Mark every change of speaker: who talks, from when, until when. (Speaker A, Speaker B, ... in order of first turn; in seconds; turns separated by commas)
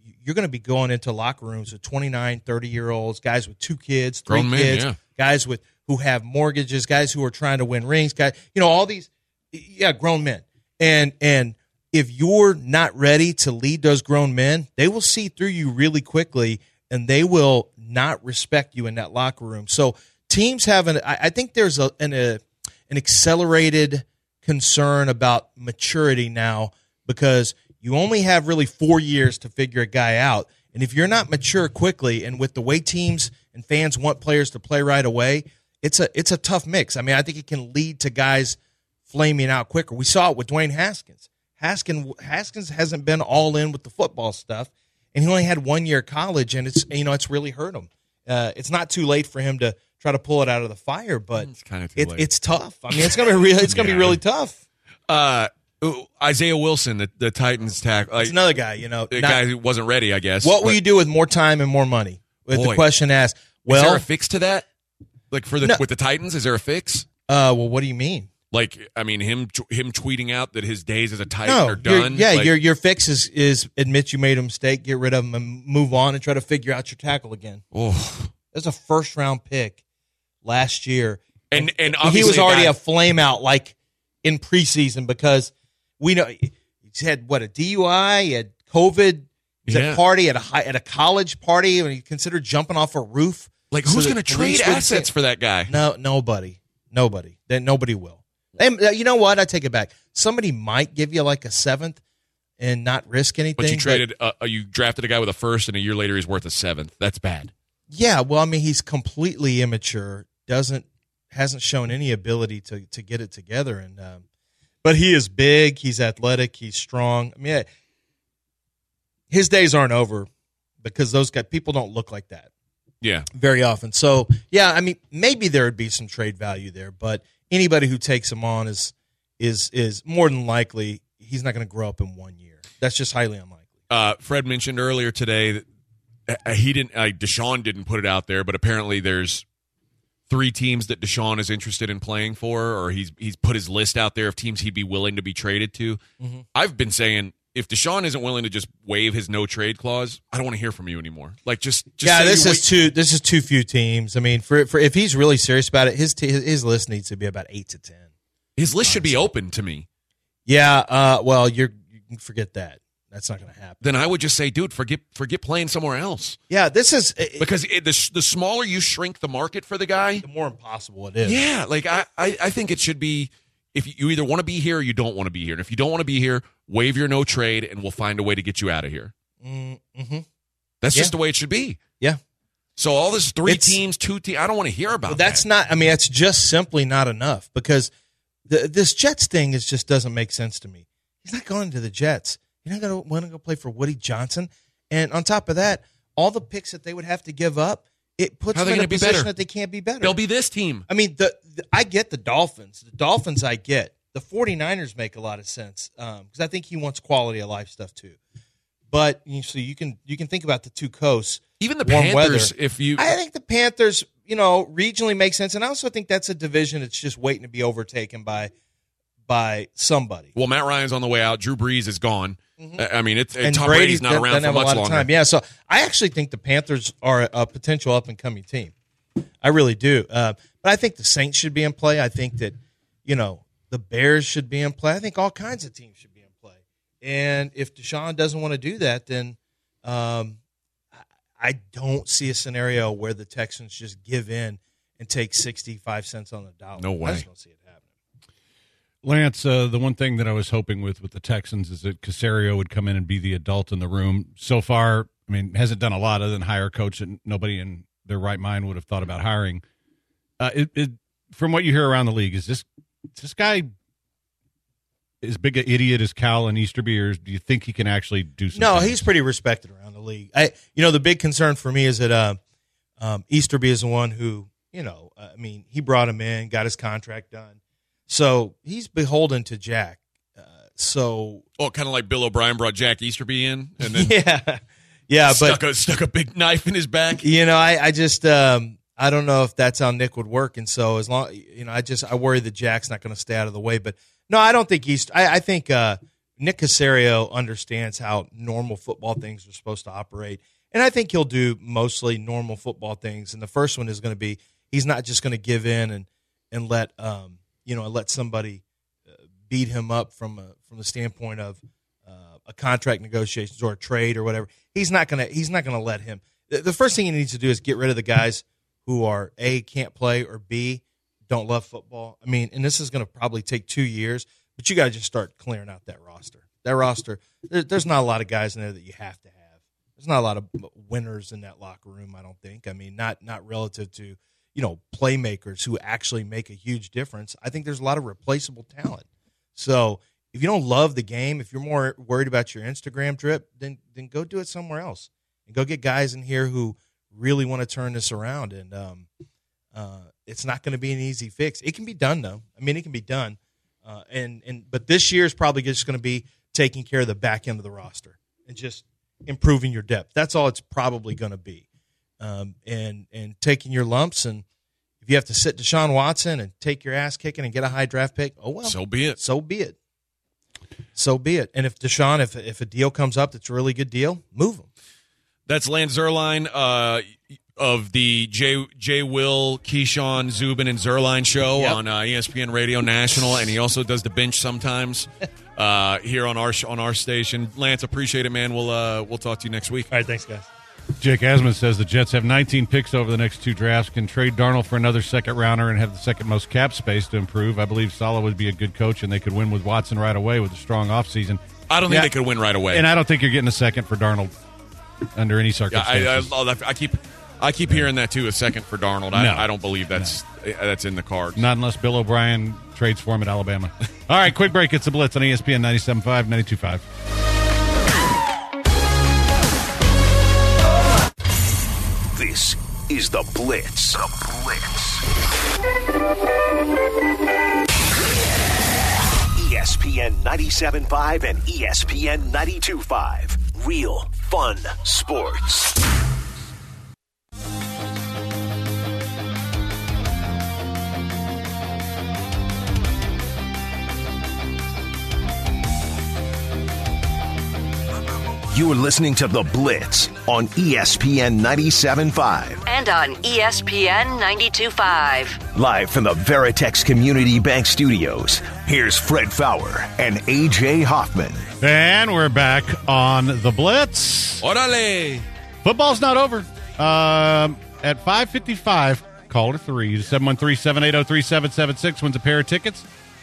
Speaker A: 0.2-54.6, Speaker B: 4.3-5.0, Speaker B: 51.4-52.2, Speaker B: 52.9-54.2, Speaker B: 55.1-58.4, Speaker A: 58.2-59.4, Speaker B: 59.1-60.8, Speaker A: 60.4-64.0, Speaker B: 62.5-62.8, Speaker B: 63.7-64.6, Speaker B: 65.3-67.1, Speaker A: 67.3-68.3, Speaker B: 68.5-72.5, Speaker A: 71.4-77.6, Speaker B: 77.7-78.3, Speaker A: 78.5-79.8, Speaker A: 80.4-95.1, Speaker B: 81.5-82.7, Speaker B: 89.7-90.0, Speaker B: 93.7-95.7, Speaker A: 95.7-102.0, Speaker A: 102.6-104.0, Speaker B: 103.6-107.5, Speaker A: 107.9-114.2, Speaker A: 114.8-117.7, Speaker A: 119.3-120.3, Speaker A: 120.8-122.5, Speaker B: 123.0-123.3, Speaker A: 123.3-133.7, Speaker B: 133.9-135.6, Speaker B: 136.3-139.4, Speaker B: 140.3-146.0, Speaker B: 146.5-152.7, Speaker A: 152.0-158.1, Speaker B: 158.6-159.8, Speaker A: 158.8-159.3, Speaker A: 160.5-163.8, Speaker B: 163.8-166.4, Speaker A: 166.5-167.5, Speaker B: 167.4-170.2, Speaker A: 170.2-171.4, Speaker B: 171.2-179.1, Speaker A: 179.4-180.2, Speaker B: 180.8-181.8, Speaker B: 182.8-185.4, Speaker A: 183.4-183.8, Speaker A: 185.1-187.9, Speaker A: 188.5-200.1, Speaker B: 198.5-199.3, Speaker B: 200.0-200.8, Speaker A: 200.9-208.2, Speaker A: 208.9-218.5, Speaker B: 211.6-213.1, Speaker A: 219.3-220.3, Speaker B: 220.3-225.1, Speaker A: 223.4-228.7, Speaker A: 229.4-240.4, Speaker A: 241.0-247.8, Speaker B: 246.8-247.2, Speaker C: 249.0-259.6, Speaker C: 260.4-263.7, Speaker C: 265.2-269.1, Speaker A: 268.5-272.4, Speaker A: 273.0-277.6, Speaker A: 278.1-281.4, Speaker B: 281.6-284.1, Speaker A: 283.9-285.6, Speaker B: 285.2-287.2, Speaker A: 287.2-308.6, Speaker A: 309.4-329.4, Speaker A: 330.0-339.0, Speaker A: 339.6-349.1, Speaker A: 349.7-361.6, Speaker A: 362.2-364.4, Speaker A: 365.0-369.8, Speaker B: 368.6-369.2, Speaker A: 370.9-374.7, Speaker B: 375.5-389.9, Speaker A: 389.9-390.5, Speaker C: 391.0-402.1, Speaker B: 401.7-402.9, Speaker C: 402.7-404.3, Speaker C: 405.1-406.3, Speaker B: 405.7-411.4, Speaker C: 409.1-410.2, Speaker C: 411.4-416.8, Speaker D: 422.1-425.0, Speaker D: 429.3-435.7, Speaker D: 448.5-452.6, Speaker E: 452.6-455.4, Speaker D: 455.5-461.4, Speaker C: 461.6-464.4, Speaker B: 464.4-465.2, Speaker C: 465.6-472.9